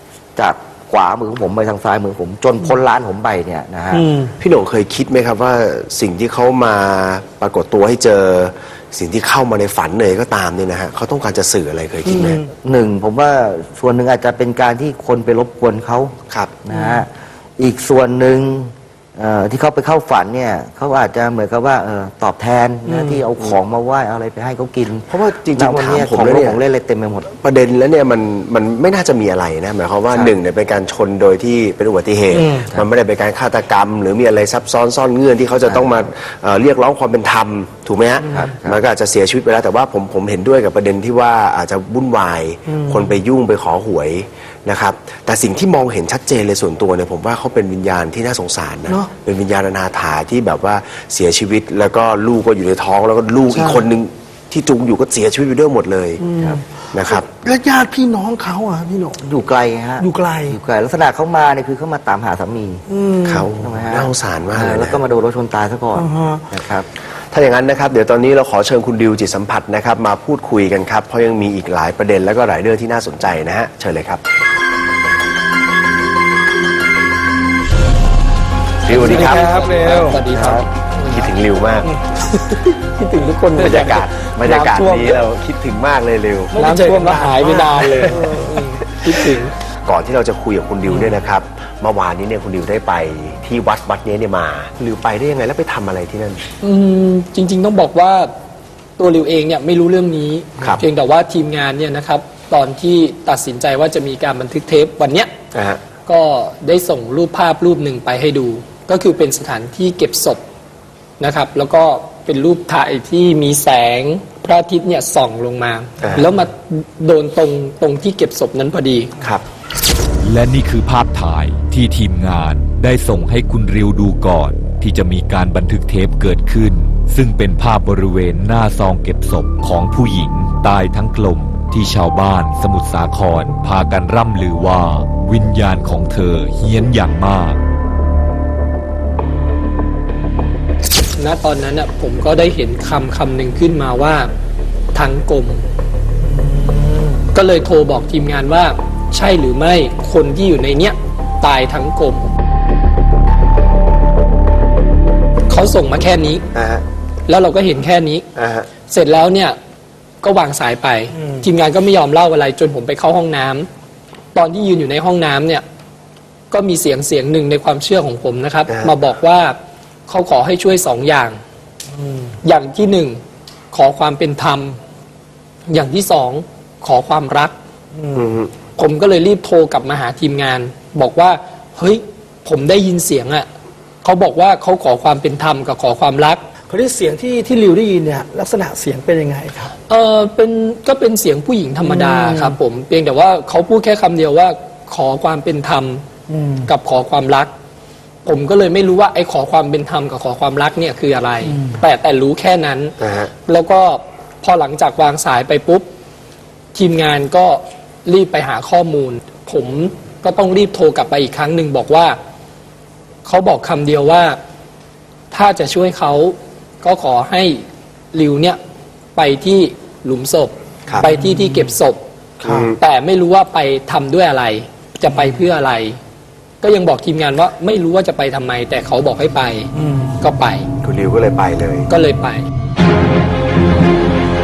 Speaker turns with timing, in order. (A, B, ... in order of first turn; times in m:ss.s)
0:00.4-0:04.1 A
0:03.9-0:04.3 B
0:04.4-0:12.4 C
0:12.6-0:16.1 A
0:16.3-0:16.6 C
0:16.6-0:27.3 A
0:16.7-0:17.0 B
0:22.9-0:23.2 B
0:25.1-0:26.6 C
0:27.4-0:56.3 C
0:32.4-0:32.7 B
0:38.3-0:38.8 A
0:56.2-0:56.6 B
0:56.9-0:57.3 C
0:57.4-0:59.2 B
0:59.2-1:02.8 A
1:00.0-1:00.6 B
1:02.9-1:03.4 B
1:03.2-1:05.0 C
1:03.5-1:06.9 A
1:06.0-1:06.4 B
1:07.3-1:14.2 C
1:18.9-1:19.5 C
1:18.9-1:20.7 D
1:19.2-1:20.2 B
1:20.3-1:20.9 A
1:21.0-1:21.9 C
1:22.2-1:24.0 D
1:23.6-1:26.6 C
1:24.4-1:25.2 B
1:26.5-1:28.8 B
1:26.6-1:29.5 D
1:27.9-1:29.1 C
1:29.9-1:36.4 C
1:36.6-1:38.3 D
1:39.0-1:45.3 D
1:45.5-1:45.8 C
1:46.1-1:50.4 D
1:51.2-1:59.1 D
1:56.0-1:56.3 C
2:00.3-2:17.6 E
2:21.2-2:24.3 D
2:24.9-2:25.7 D
2:26.2-2:27.2 B
2:27.3-2:32.3 D
2:35.5-2:36.4 D
2:36.5-2:36.8 C
2:37.3-2:38.2 D
2:38.4-2:38.7 C
2:38.9-2:39.6 D
2:40.2-2:43.7 D
2:44.3-2:45.6 D
2:46.5-2:51.4 D
2:48.7-2:49.0 C
2:51.9-2:52.3 B
2:52.4-2:53.2 D
2:53.7-2:54.8 D
2:55.7-2:57.6 D
2:57.9-2:58.3 B
2:58.2-2:58.5 C
2:58.8-3:03.5 D
3:04.0-3:06.4 D
3:06.7-3:09.7 B
3:09.9-3:16.0 D
3:12.1-3:12.6 B
3:16.3-3:16.7 B
3:16.7-3:17.5 D
3:18.2-3:23.0 D
3:23.0-3:23.3 C
3:23.5-3:25.9 D
3:26.7-3:32.2 D
3:33.2-3:34.4 D
3:35.3-3:38.6 D
3:39.2-3:42.0 D
3:41.0-3:41.6 B
3:42.4-3:42.8 C
3:42.5-3:42.7 B
3:42.8-3:46.0 D
3:46.6-3:50.7 D
3:49.7-3:50.2 B
3:50.8-3:51.9 C
3:51.9-3:52.5 D